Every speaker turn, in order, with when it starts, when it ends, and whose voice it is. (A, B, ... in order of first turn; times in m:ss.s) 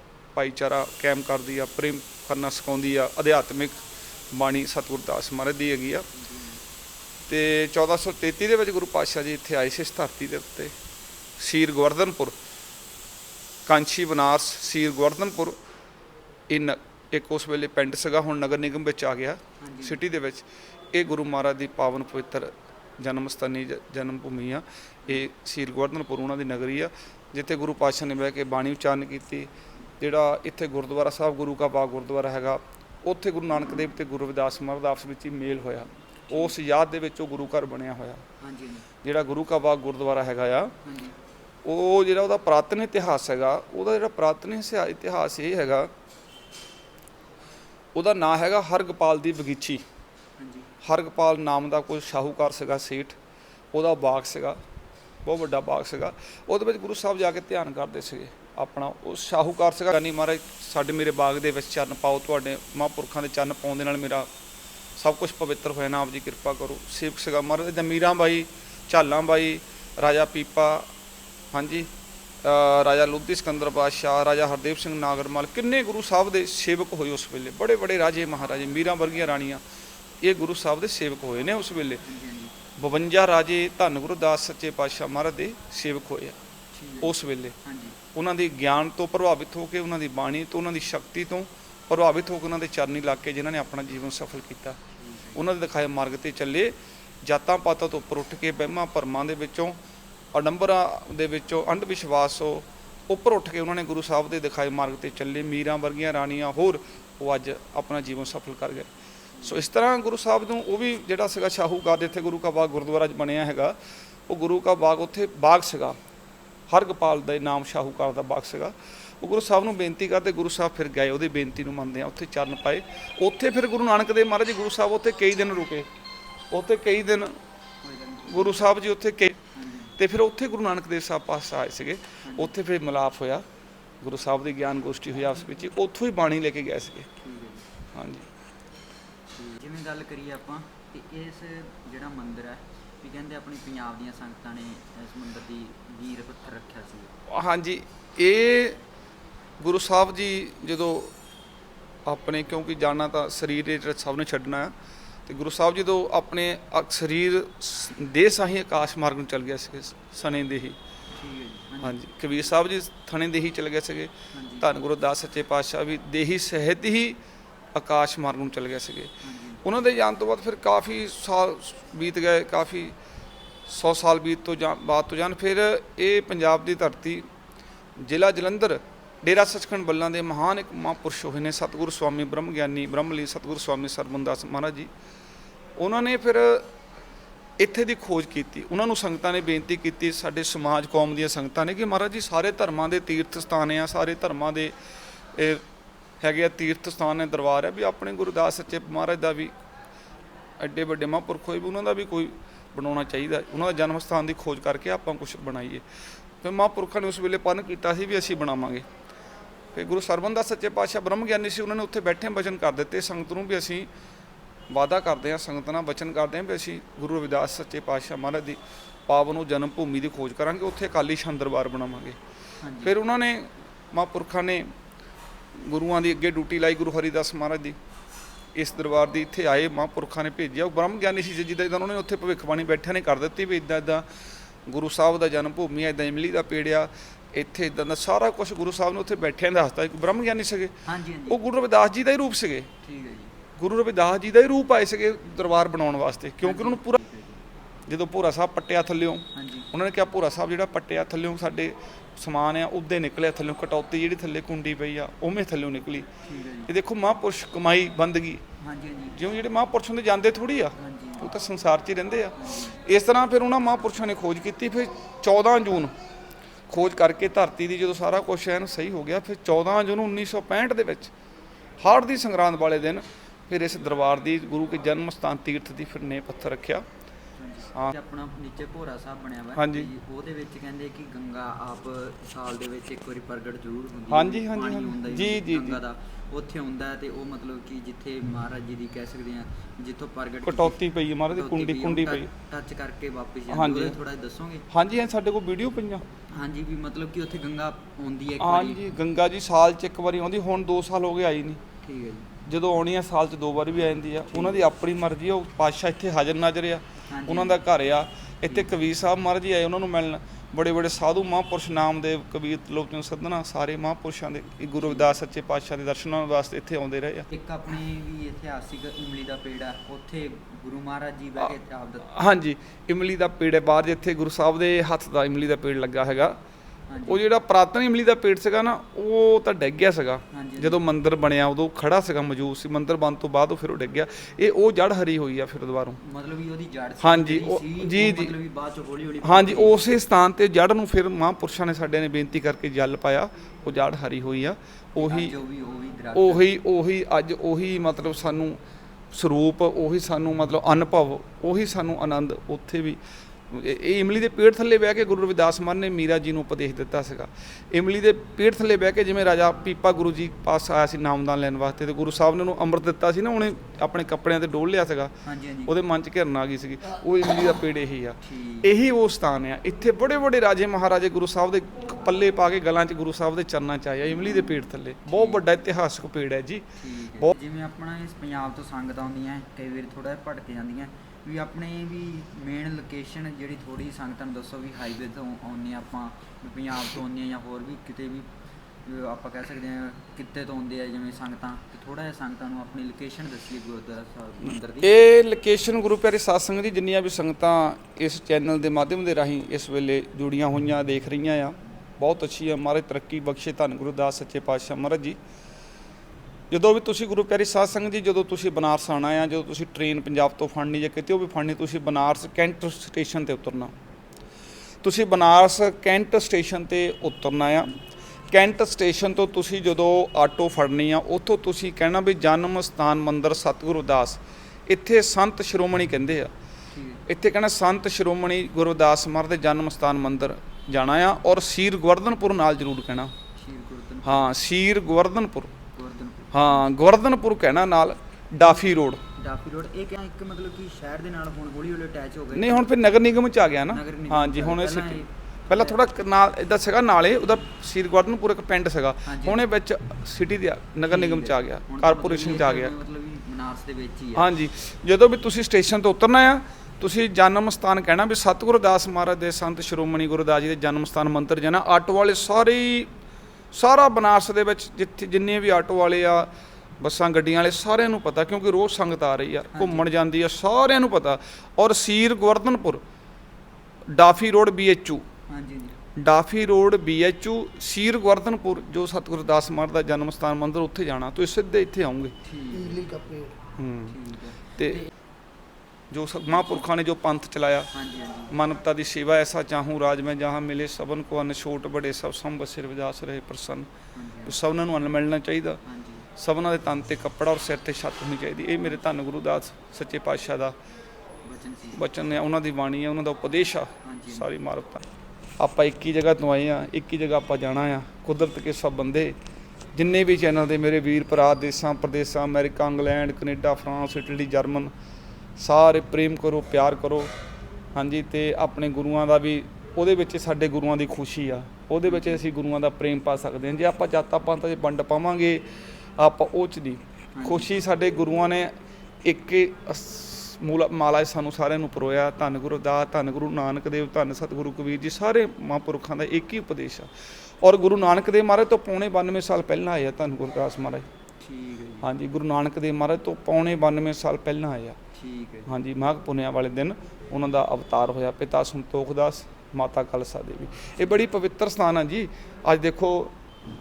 0:00.4-0:03.8 A
0:04.3-0:06.1 A
0:06.1-0:06.6 B
0:07.3-0:10.7 A
0:11.4-0:12.4 A
0:13.7-0:15.6 A
0:16.5-0:38.2 A
0:19.6-0:20.0 B
0:38.4-0:38.9 B
0:39.0-0:40.7 A
0:40.8-0:41.2 B
0:41.6-0:45.9 A
0:48.0-0:49.8 A
0:50.4-0:50.7 B
0:50.8-0:53.2 A
0:53.7-0:54.6 A
0:55.2-1:04.3 A
1:05.0-1:10.9 A
1:11.5-1:11.9 A
1:12.4-1:19.6 A
1:20.2-1:22.0 A
1:22.0-1:22.5 B
1:22.8-1:26.4 A
1:26.7-1:28.0 B
1:27.0-1:27.6 A
1:28.1-1:34.8 A
1:35.0-1:35.4 B
1:35.4-1:39.8 A
1:40.3-1:48.9 A
1:49.4-1:49.6 B
1:49.4-1:53.8 A
1:54.3-1:56.0 A
1:56.7-2:05.9 A
2:06.5-2:07.4 A
2:07.8-2:08.7 B
2:08.3-2:09.4 A
2:09.6-2:09.9 B
2:10.0-2:13.4 A
2:12.2-2:12.5 B
2:14.0-2:17.1 A
2:17.2-2:17.7 B
2:17.9-2:18.2 A
2:19.4-2:27.1 B
2:27.3-2:28.8 A
2:29.6-2:31.1 A
2:32.1-2:34.7 A
2:35.3-2:40.8 A
2:41.1-2:42.0 B
2:41.8-2:47.2 A
2:44.3-2:44.7 B
2:47.8-2:49.1 A
2:49.2-2:49.6 B
2:49.6-2:52.9 A
2:53.7-2:57.2 A
2:58.0-3:04.9 A
3:05.8-3:06.7 A
3:07.6-3:14.7 A
3:15.4-3:15.6 A
3:16.2-3:19.5 A
3:20.6-3:25.8 A
3:26.4-3:28.9 A
3:29.7-3:33.9 A
3:34.7-3:42.2 A
3:42.6-3:42.9 B
3:42.8-3:44.7 A
3:45.6-3:47.8 A
3:48.6-3:54.0 A
3:54.7-4:02.7 A
4:00.9-4:01.4 B
4:02.8-4:03.3 B
4:03.6-4:07.0 A
4:06.4-4:07.4 B
4:07.9-4:16.1 A
4:09.4-4:09.7 B
4:16.3-4:16.7 B
4:16.7-4:18.4 A
4:18.6-4:19.2 B
4:19.2-4:25.9 A
4:20.8-4:21.3 B
4:22.4-4:22.8 B
4:26.7-4:31.1 A
4:31.8-4:36.8 A
4:37.4-4:50.8 B
4:39.6-4:39.9 A
4:44.1-4:45.8 A
4:50.4-4:52.3 A
4:51.3-4:54.6 B
4:53.5-4:54.0 A
4:54.7-4:56.0 A
4:56.3-4:58.8 B
4:58.4-5:01.6 A
5:01.8-5:02.3 B
5:02.5-5:17.3 A
5:04.3-5:04.6 B
5:07.1-5:07.6 B
5:14.8-5:15.2 B
5:17.3-5:22.1 B
5:22.1-5:26.4 A
5:26.9-5:27.2 B
5:27.1-5:36.0 A
5:30.3-5:30.8 B
5:36.0-5:39.8 B
5:37.0-5:38.3 A
5:39.2-5:45.3 A
5:45.0-5:46.5 B
5:46.1-5:48.6 A
5:49.1-5:53.0 A
5:53.5-6:05.1 A
6:05.3-6:05.7 B
6:05.7-6:16.6 A
6:08.2-6:08.7 B
6:15.1-6:15.4 B
6:16.8-6:28.3 B
6:28.8-6:34.9 B
6:34.8-6:45.2 A
6:46.5-6:53.7 A
6:54.8-6:57.7 A
6:58.3-7:06.3 A
7:06.7-7:07.0 B
7:07.1-7:13.1 A
7:13.4-7:14.3 B
7:14.0-7:15.5 A
7:15.7-7:16.7 B
7:16.3-7:19.0 A
7:18.4-7:22.7 B
7:22.4-7:32.7 A
7:23.7-7:25.9 B
7:29.1-7:29.4 B
7:30.9-7:34.2 B
7:34.2-7:42.9 A
7:43.5-7:46.3 A
7:46.8-7:52.8 A
7:49.5-7:49.8 B
7:53.9-7:55.0 A
7:55.3-7:55.8 B
7:56.0-8:02.1 A
8:02.2-8:03.1 B
8:03.6-8:04.0 A
8:03.9-8:04.9 B
8:05.9-8:07.7 A
8:06.3-8:06.6 B
8:07.7-8:08.3 B
8:08.3-8:13.7 A
8:14.0-8:14.4 B
8:14.3-8:15.6 A
8:15.6-8:16.1 B
8:16.2-8:20.6 A
8:21.2-8:21.8 B
8:21.8-8:24.8 A
8:23.8-8:24.3 B
8:25.4-8:29.2 A
8:29.8-8:34.7 A
8:35.4-8:37.1 A
8:37.8-8:45.4 A
8:41.9-8:42.2 B
8:46.0-8:48.5 A
8:47.2-8:47.5 B
8:49.0-8:56.9 A
8:57.4-9:00.9 A
9:01.2-9:01.9 B
9:01.8-9:04.8 A
9:05.0-9:05.5 B
9:05.5-9:13.1 A